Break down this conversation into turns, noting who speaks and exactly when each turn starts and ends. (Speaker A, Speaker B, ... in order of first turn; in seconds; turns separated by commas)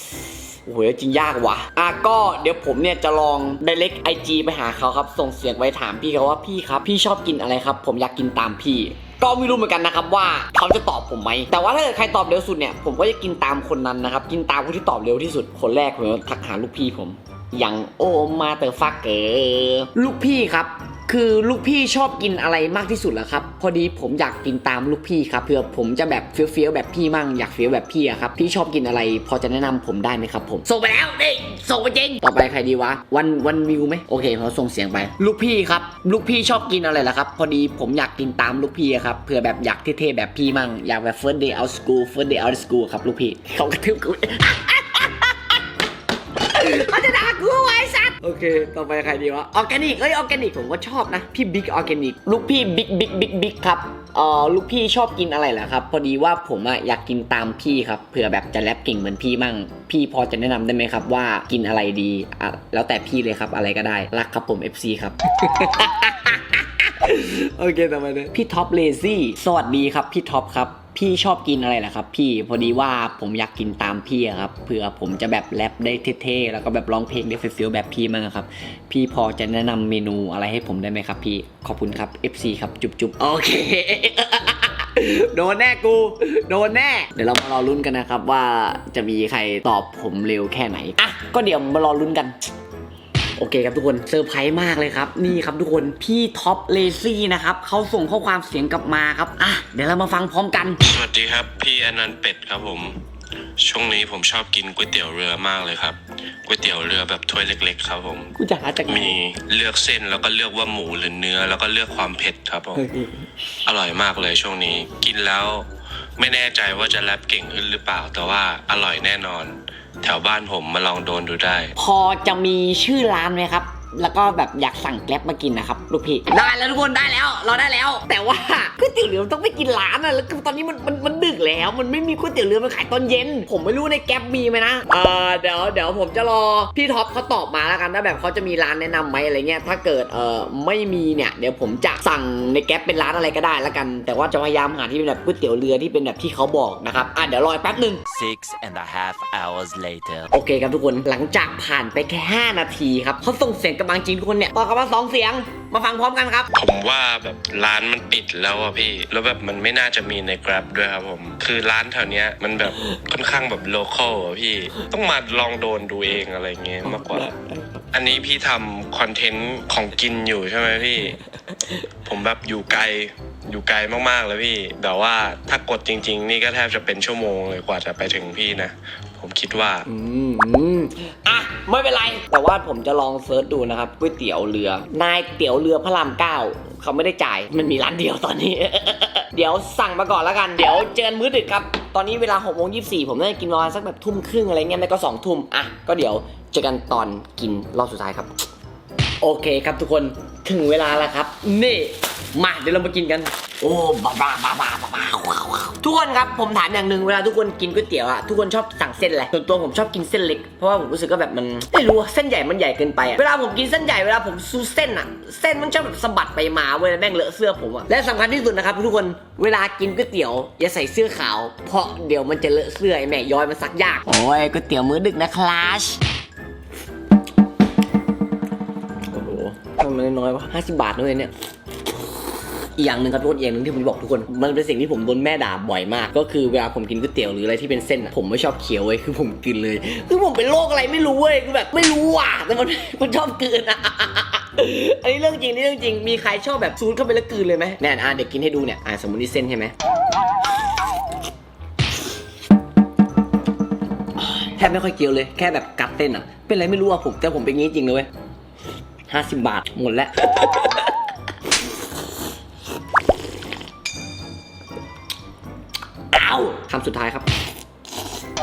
Speaker A: 0.7-45.6, Speaker A: 46.4-92.4, Speaker A: 93.4-100.8, Speaker B: 100.8-103.0, Speaker B: 103.6-108.3, Speaker A: 108.3-109.2, Speaker B: 108.9-112.8, Speaker A: 112.7-113.2, Speaker B: 113.7-121.7, Speaker A: 121.8-148.0, Speaker C: 148.1-150.3, Speaker A: 150.3-156.5, Speaker B: 156.5-167.3, Speaker A: 166.8-167.8, Speaker B: 167.9-171.2, Speaker B: 172.0-179.8, Speaker A: 179.8-198.3, Speaker A: 199.2-226.0, Speaker A: 229.1-231.3, Speaker A: 232.8-249.7, Speaker A: 254.2-258.1, Speaker A: 259.1-261.0, Speaker A: 266.1-267.3